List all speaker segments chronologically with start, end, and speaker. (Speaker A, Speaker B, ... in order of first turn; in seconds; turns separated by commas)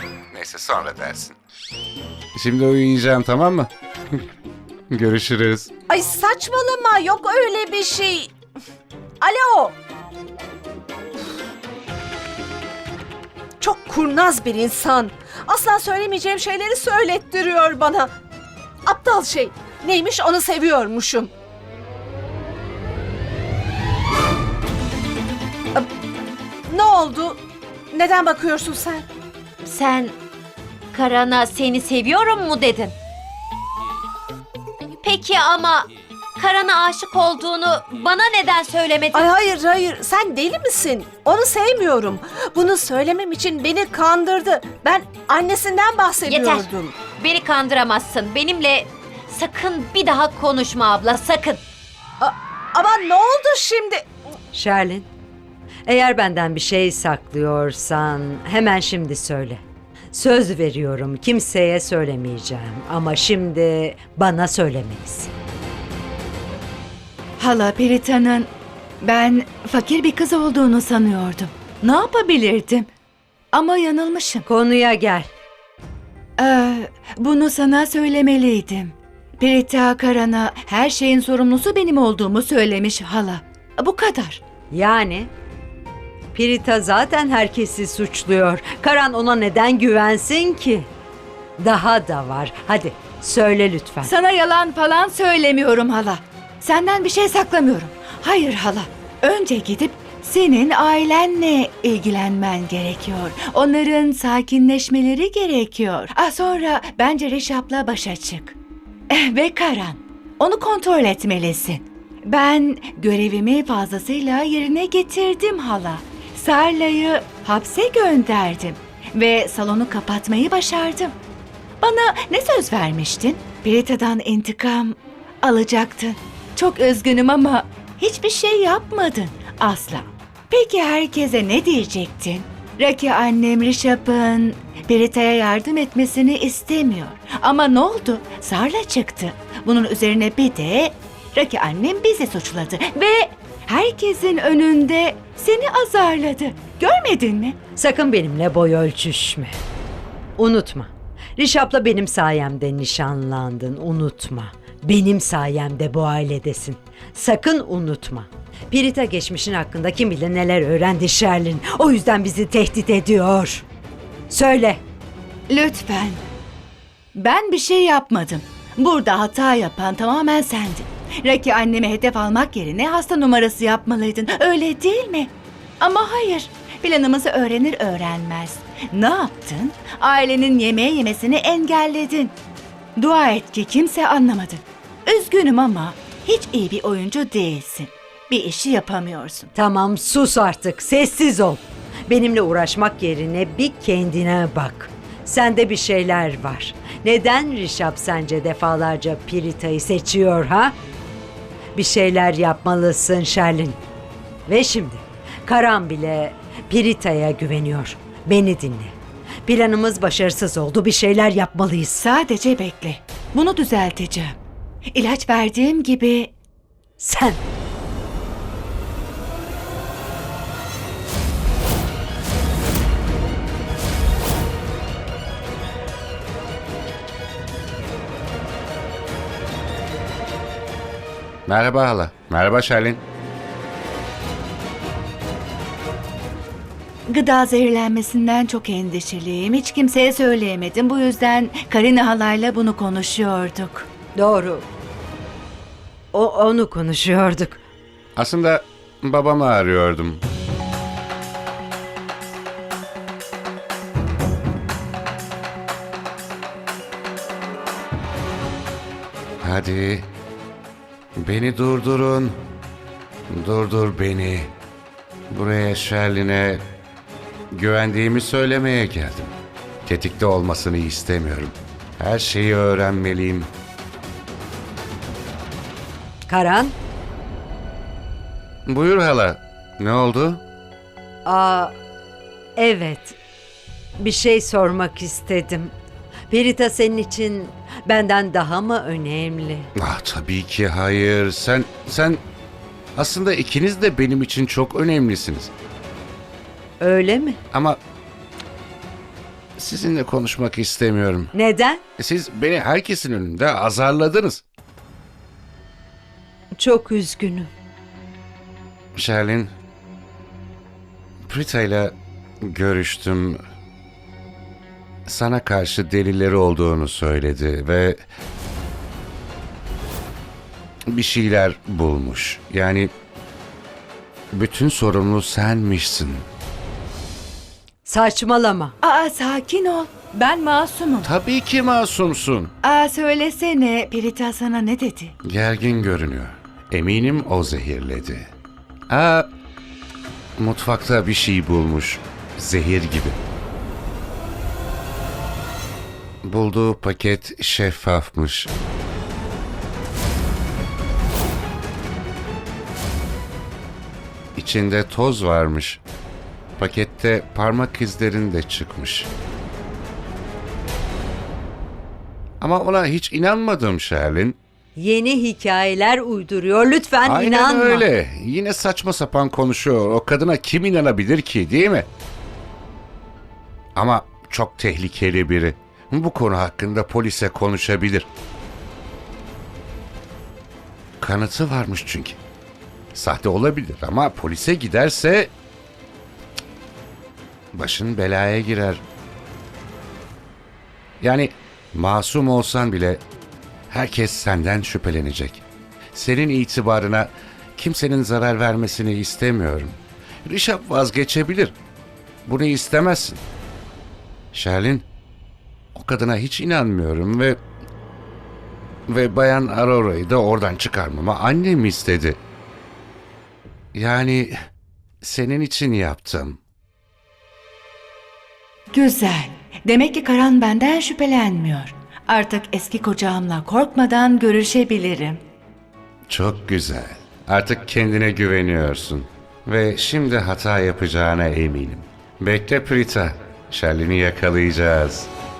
Speaker A: 0.3-1.3, Speaker A: 2.3-4.2, Speaker A: 4.9-5.7, Speaker B: 5.9-8.3, Speaker B: 9.2-9.7, Speaker B: 13.6-18.1, Speaker B: 18.9-21.3, Speaker B: 26.7-27.4, Speaker B: 27.9-29.1, Speaker C: 29.6-30.1, Speaker C: 30.9-32.9, Speaker C: 34.8-39.3, Speaker B: 39.1-47.0, Speaker C: 46.2-51.6, Speaker B: 52.2-54.0, Speaker D: 54.5-55.1, Speaker D: 55.9-65.3, Speaker E: 67.4-72.9, Speaker E: 73.5-74.5, Speaker D: 74.5-75.3, Speaker E: 76.4-84.4, Speaker D: 84.7-85.3, Speaker D: 86.3-90.9, Speaker D: 91.6-94.1, Speaker E: 94.0-108.5, Speaker E: 109.1-121.1, Speaker E: 121.8-147.6, Speaker D: 147.8-149.6, Speaker D: 150.4-163.6, Speaker D: 164.3-164.8, Speaker E: 165.5-166.2, Speaker E: 167.1-182.3, Speaker E: 182.9-189.5, Speaker D: 189.5-200.7, Speaker D: 201.7-203.8, Speaker D: 204.5-212.0, Speaker E: 211.9-214.4, Speaker E: 214.9-216.3, Speaker D: 217.0-217.4, Speaker A: 231.5-233.0, Speaker E: 237.1-243.9, Speaker D: 244.2-244.6, Speaker D: 246.1-247.6, Speaker A: 248.2-250.2, Speaker A: 259.4-260.1, Speaker A: 261.2-262.4, Speaker A: 263.3-264.5, Speaker A: 265.3-266.6, Speaker A: 267.5-269.3, Speaker A: 269.8-273.5, Speaker D: 276.3-276.7, Speaker A: 278.6-280.4, Speaker D: 281.2-281.7, Speaker D: 282.6-283.1, Speaker D: 284.0-285.7, Speaker D: 286.3-289.7, Speaker A: 289.8-292.2, Speaker A: 292.9-295.5, Speaker D: 296.8-297.4, Speaker A: 297.5-297.8, Speaker A: 299.6-301.3, Speaker D: 301.3-301.8, Speaker A: 302.0-304.4, Speaker D: 306.6-307.5, Speaker A: 308.9-309.5, Speaker A: 311.3-313.4, Speaker A: 315.1-318.0, Speaker A: 320.9-322.9, Speaker A: 324.3-326.2, Speaker D: 327.8-328.8, Speaker E: 328.8-331.1, Speaker A: 331.0-332.5, Speaker E: 332.6-335.1, Speaker A: 335.2-338.3, Speaker A: 338.9-339.3, Speaker A: 340.4-343.2, Speaker A: 346.2-348.5, Speaker A: 354.4-355.8, Speaker A: 356.6-359.1, Speaker A: 362.4-364.4, Speaker D: 364.8-367.9, Speaker A: 367.0-371.9, Speaker A: 373.8-378.1, Speaker A: 381.0-382.2, Speaker A: 382.9-385.3, Speaker A: 387.5-388.8, Speaker A: 391.0-393.0, Speaker A: 393.7-395.4, Speaker A: 395.9-401.6, Speaker A: 402.2-403.2, Speaker A: 404.3-404.9, Speaker A: 405.7-407.4, Speaker A: 408.9-412.2, Speaker A: 413.7-414.3, Speaker A: 415.0-416.4, Speaker E: 418.7-425.2, Speaker A: 426.1-435.1